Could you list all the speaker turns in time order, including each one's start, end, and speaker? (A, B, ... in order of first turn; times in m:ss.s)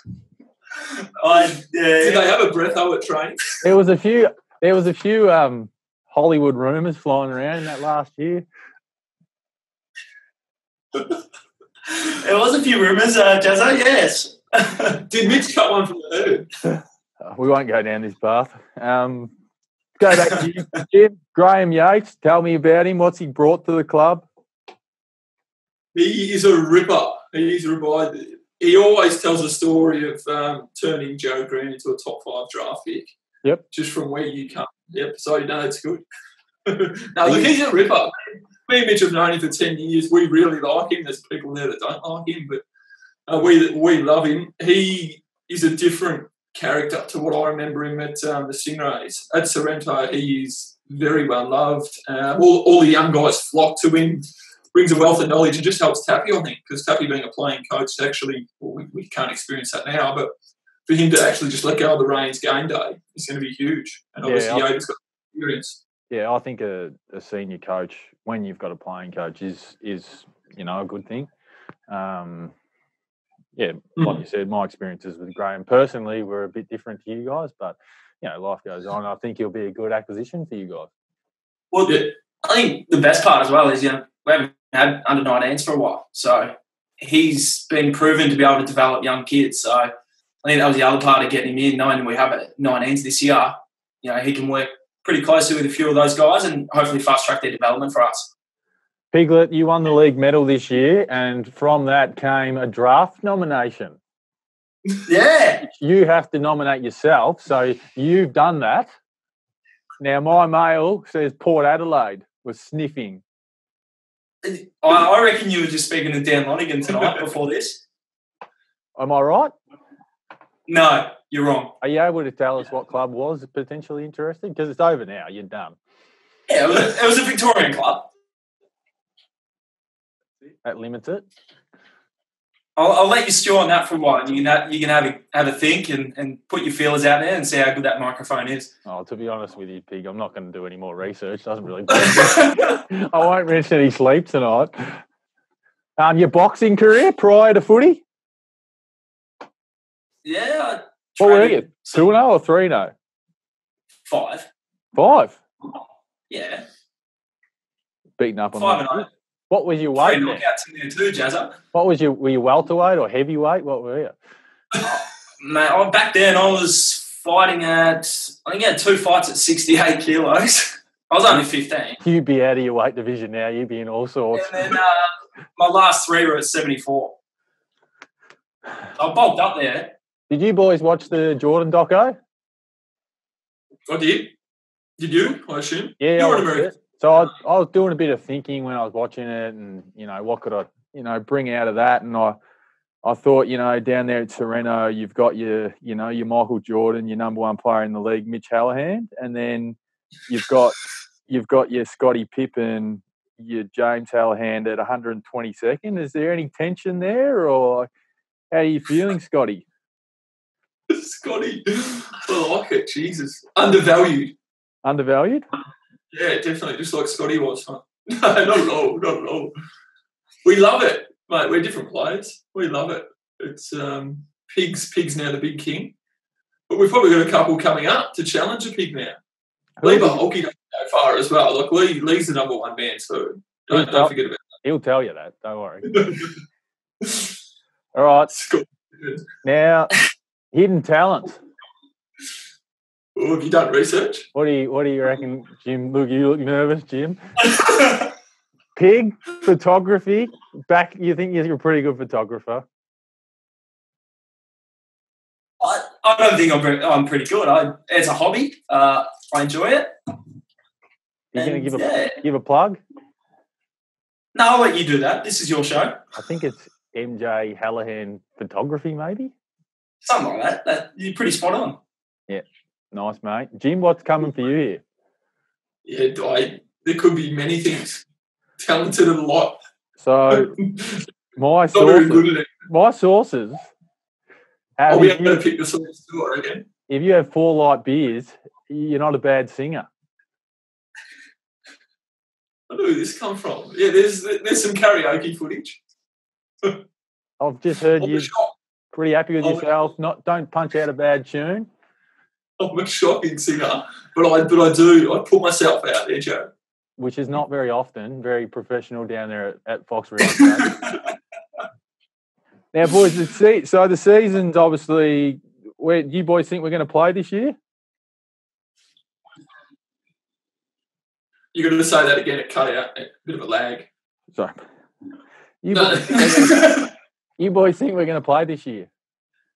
0:01.2-0:02.3 A
0:02.0-0:03.4 B
0:03.6-0:08.4 C
0:12.0-0:15.0 A
0:15.1-0:16.5 B
0:17.2-0:19.3 C
0:20.0-0:24.2 C
0:25.9-0:33.1 B
0:33.7-0:36.0 B
0:36.7-0:42.6 B
0:37.2-0:37.5 C
0:43.3-1:00.3 B
1:00.9-1:05.8 B
1:04.2-1:04.7 C
1:06.1-1:11.3 C
1:11.9-1:12.5 C
1:13.6-1:20.9 C
1:21.7-1:29.9 A
1:30.4-1:38.3 A
1:39.1-1:44.0 C
1:45.1-1:45.7 A
1:45.6-1:48.9 C
1:50.0-1:53.2 C
1:54.4-1:57.8 A
1:59.0-1:59.6 C
2:00.7-2:01.8 A
2:01.8-2:05.8 C
2:06.5-2:08.1 A
2:10.6-2:11.2 C
2:12.8-2:18.7 A
2:18.8-2:25.0 C
2:26.0-2:28.0 C
2:30.2-2:32.0 A
2:31.2-2:32.9 C
2:34.1-2:34.5 A
2:34.9-2:35.4 C
2:36.3-2:36.6 A
2:38.2-2:40.4 C
2:38.6-2:39.1 A
2:40.0-2:41.6 A
2:41.7-2:44.1 C
2:44.8-2:52.0 A
2:52.0-2:54.8 C
2:54.3-2:57.2 A
2:59.0-3:00.0 A
3:00.3-3:02.2 C
3:03.9-3:04.3 B
3:05.0-3:06.8 B
3:06.0-3:12.4 C
3:13.0-3:27.9 C
3:28.5-3:29.6 C
3:30.9-3:34.4 B
3:34.8-3:35.5 C
3:36.1-3:39.5 B
3:40.4-3:45.9 B
3:46.7-3:49.2 B
3:49.8-3:50.2 C
3:49.8-3:54.4 B
3:53.7-3:56.1 C
3:55.9-3:56.4 B
3:57.0-3:57.3 B
3:57.9-3:58.3 C
3:58.3-3:59.2 B
3:59.4-4:00.0 C
4:00.5-4:01.4 C
4:03.2-4:04.3 B
4:04.3-4:07.2 C
4:07.6-4:08.1 A
4:08.8-4:12.7 C
4:15.6-4:20.0 A
4:21.3-4:22.8 C
4:21.4-4:22.2 A
4:24.3-4:26.0 A
4:26.2-4:29.3 C
4:30.0-4:31.8 A
4:32.3-4:34.8 C
4:35.8-4:38.0 B
4:38.6-4:39.6 B
4:40.0-4:40.5 C
4:40.3-4:41.1 B
4:41.4-4:43.7 C
4:41.7-4:42.6 B
4:44.8-4:45.4 C
4:44.9-4:46.7 B
4:46.9-4:49.9 C
4:52.7-4:55.8 B
4:57.4-4:58.3 C
4:58.0-4:58.5 B
4:58.9-5:01.7 C
4:59.4-4:59.7 B
5:02.6-5:06.5 B
5:07.0-5:10.7 C
5:12.7-5:17.6 C
5:21.5-5:23.9 B
5:24.3-5:24.6 C
5:25.6-5:26.8 C
5:25.7-5:26.8 B
5:27.4-5:28.9 C